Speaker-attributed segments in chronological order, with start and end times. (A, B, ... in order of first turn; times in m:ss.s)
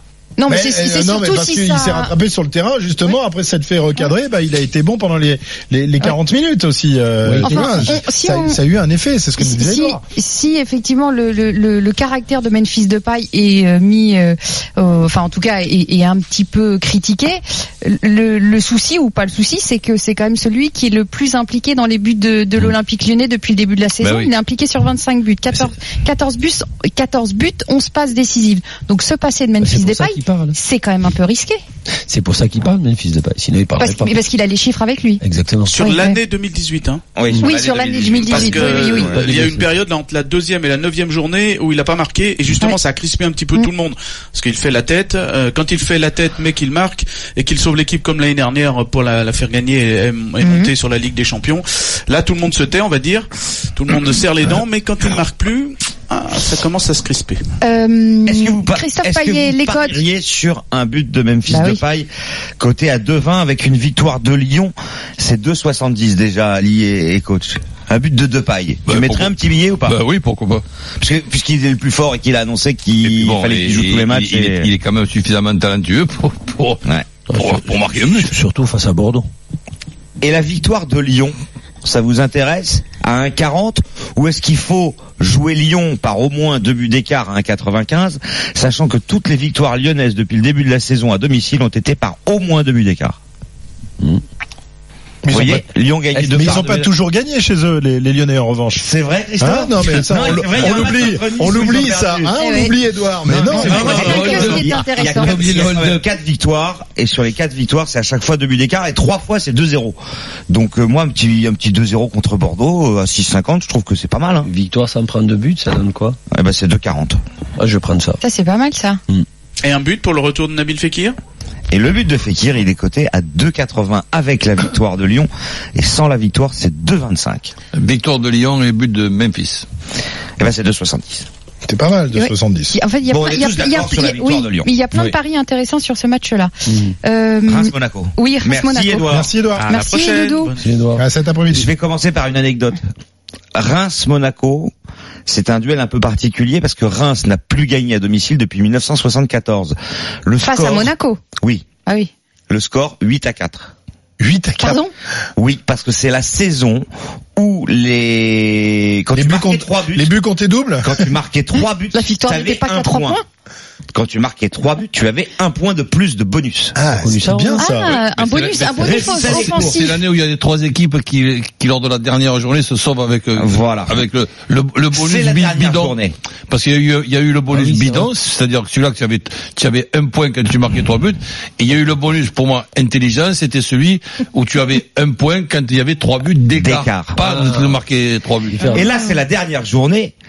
0:00.4-0:02.1 A
0:00.5-0:10.0 B
0:07.3-0:07.6 C
0:07.4-0:08.6 A
0:09.4-0:31.6 A
0:24.0-0:24.3 D
0:29.6-0:30.6 C
0:32.1-0:34.2 C
0:33.8-0:35.2 A
0:35.2-0:35.8 C
0:35.6-0:37.0 E
0:35.8-0:36.2 A
0:37.2-0:39.4 F
0:37.4-0:39.2 A
0:38.2-0:57.4 E
0:50.4-0:50.7 A
0:57.6-1:00.0 A
0:58.2-1:10.0 F
1:01.5-1:01.8 A
1:08.8-1:09.3 D
1:09.8-1:10.6 D
1:11.0-1:14.7 F
1:13.0-1:18.3 D
1:17.3-1:19.3 C
1:20.2-1:33.2 F
1:35.2-1:38.8 B
1:35.3-1:36.9 F
1:38.8-1:42.3 F
1:39.4-1:44.3 B
1:42.4-1:42.7 A
1:43.4-1:45.6 A
1:43.5-1:50.0 F
1:43.5-1:46.0 D
1:50.5-1:54.5 F
1:54.4-1:56.2 C
1:56.3-1:57.2 F
1:57.6-1:58.2 C
1:58.2-1:59.0 A
1:59.6-2:01.2 E
2:01.7-2:07.5 F
2:07.7-2:09.6 D
2:10.4-2:11.2 F
2:11.6-2:12.8 B
2:12.1-2:16.5 A
2:13.1-2:14.7 F
2:16.7-2:16.9 C
2:17.0-2:19.1 A
2:17.5-2:19.3 F
2:19.1-2:19.7 B
2:19.5-2:20.7 E
2:19.7-2:20.5 A
2:20.6-2:21.0 C
2:20.9-2:21.7 B
2:21.5-2:22.8 F
2:23.5-2:24.7 F
2:25.2-2:31.6 F
2:30.4-2:31.2 A
2:32.5-2:33.7 F
2:34.2-2:34.8 B
2:34.6-2:34.9 A
2:35.4-2:40.1 F
2:39.1-2:41.1 B
2:40.8-2:43.2 F
2:41.9-2:43.2 A
2:43.9-2:46.8 F
2:46.7-2:48.0 B
2:46.9-2:47.6 C
2:47.6-2:49.9 A
2:47.9-2:56.0 D
2:48.7-2:49.8 F
2:53.4-2:54.0 F
2:54.9-2:56.1 F
2:56.5-3:08.8 D
2:57.6-2:58.1 C
3:06.5-3:07.2 F
3:07.3-3:07.7 C
3:08.5-3:08.8 C
3:08.7-3:10.1 F